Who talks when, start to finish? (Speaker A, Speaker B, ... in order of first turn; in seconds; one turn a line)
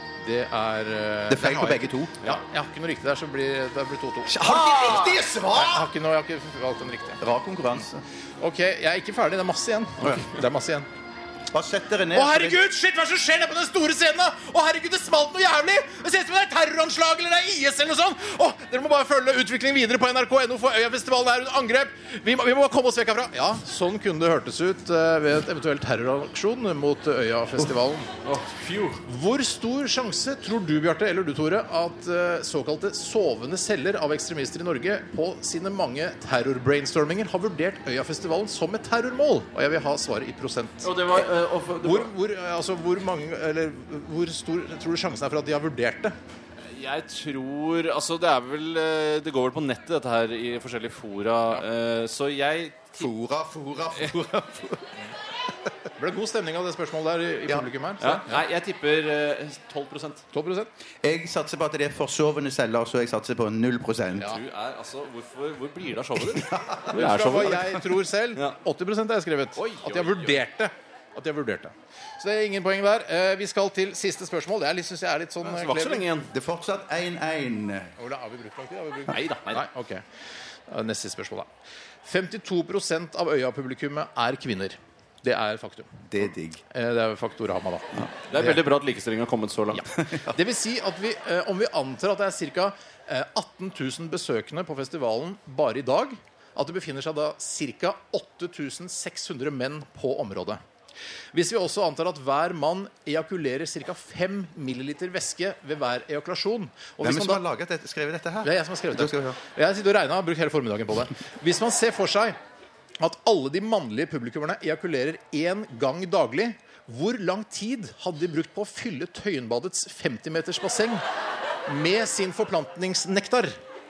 Speaker A: 0.2-4.9
Speaker B: 1.3-2.1
Speaker B: 4.2-5.9
Speaker C: 4.6-5.2
Speaker A: 5.5-7.2
Speaker B: 7.2-8.0
Speaker A: 8.4-10.9
Speaker B: 11.5-12.6
Speaker A: 12.1-28.1
Speaker C: 28.2-29.0
Speaker A: 29.0-41.3
Speaker C: 40.8-42.1
Speaker A: 41.8-46.1
Speaker C: 46.7-53.1
Speaker B: 53.0-54.8
Speaker A: 56.0-58.4
Speaker C: 58.0-60.2
Speaker A: 60.3-60.7
Speaker B: 61.0-64.3
Speaker C: 64.2-67.7
Speaker B: 66.3-67.0
Speaker A: 66.9-76.1
Speaker C: 69.5-70.4
Speaker C: 75.4-76.3
Speaker B: 76.3-77.9
Speaker A: 78.0-80.0
Speaker C: 79.1-79.7
Speaker A: 80.7-81.5
Speaker A: 82.0-86.0
Speaker B: 86.1-86.6
Speaker A: 86.7-88.6
Speaker C: 88.3-89.8
Speaker A: 89.7-100.6
Speaker A: 101.3-107.4
Speaker B: 107.0-109.4
Speaker A: 108.4-112.4
Speaker A: 113.0-121.0
Speaker A: 121.7-123.5